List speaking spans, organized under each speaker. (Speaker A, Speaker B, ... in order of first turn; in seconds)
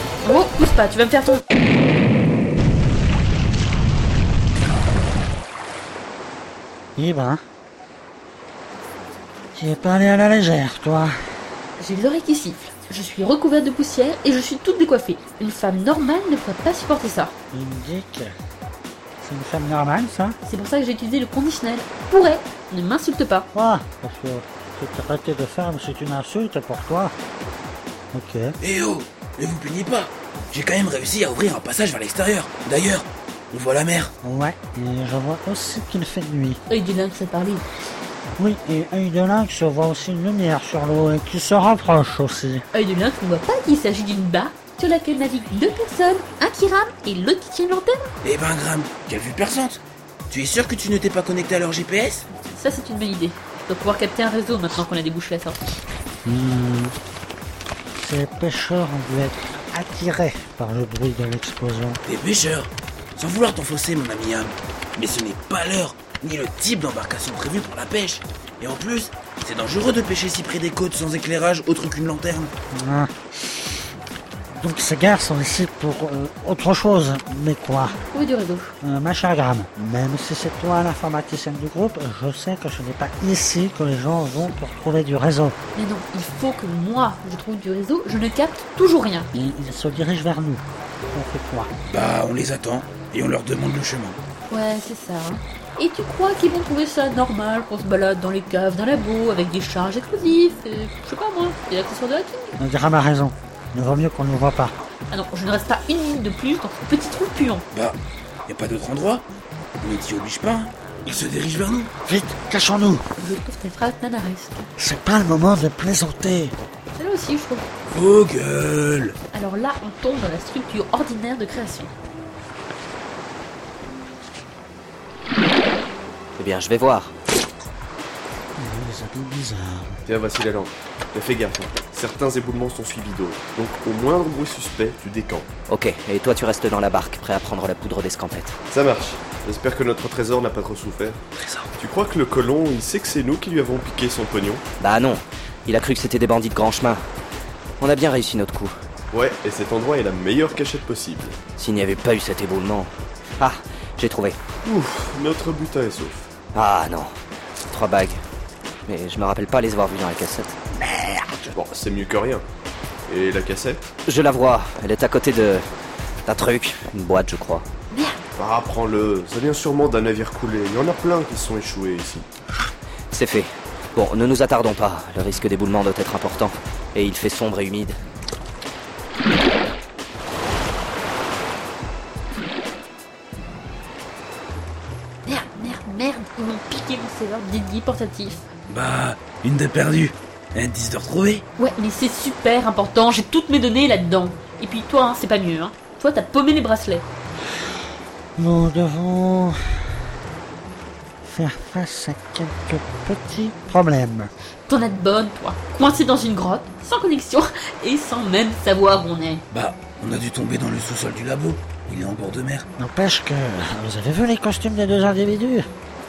Speaker A: 0.2-1.4, 11.8-17.4, 20.4-23.5, 36.7-37.7, 42.7-48.1, 52.5-55.6, 78.1-78.8, 85.8-89.3, 94.5-102.6, 105.1-107.7, 113.2-114.7, 117.0-117.7, 119.3-121.9, 167.9-168.2, 185.3-188.5, 191.6-197.1, 204.7-209.4
Speaker B: 7.0-7.4, 9.5-11.1, 17.5-18.3, 19.2-20.4, 23.5-27.1, 28.1-28.6, 34.2-36.6, 38.4-42.6, 56.2-57.0, 58.0-62.0, 72.7-73.7, 74.5-78.0, 78.8-85.6, 89.3-91.7, 102.6-104.8, 112.0-113.0, 114.8-116.6, 128.6-130.0, 198.4-199.6, 201.2-204.3, 212.8-215.7
Speaker C: 28.6-34.1, 48.2-52.3, 62.0-72.5, 91.9-94.2, 107.7-109.3, 109.8-111.9, 117.9-119.2, 141.4-141.7, 188.7-191.5, 209.5-212.7
Speaker D: 126.4-127.1, 135.7-138.6, 144.8-147.1, 147.8-148.8, 151.6-154.4, 156.5-157.2, 157.7-158.2, 158.9-160.6, 164.1-165.7, 166.2-167.7, 173.1-178.0
Speaker E: 130.1-135.5, 138.7-141.2, 141.8-144.6, 149.1-151.4, 154.6-156.3, 161.5-162.4, 163.1-163.9, 168.4-172.3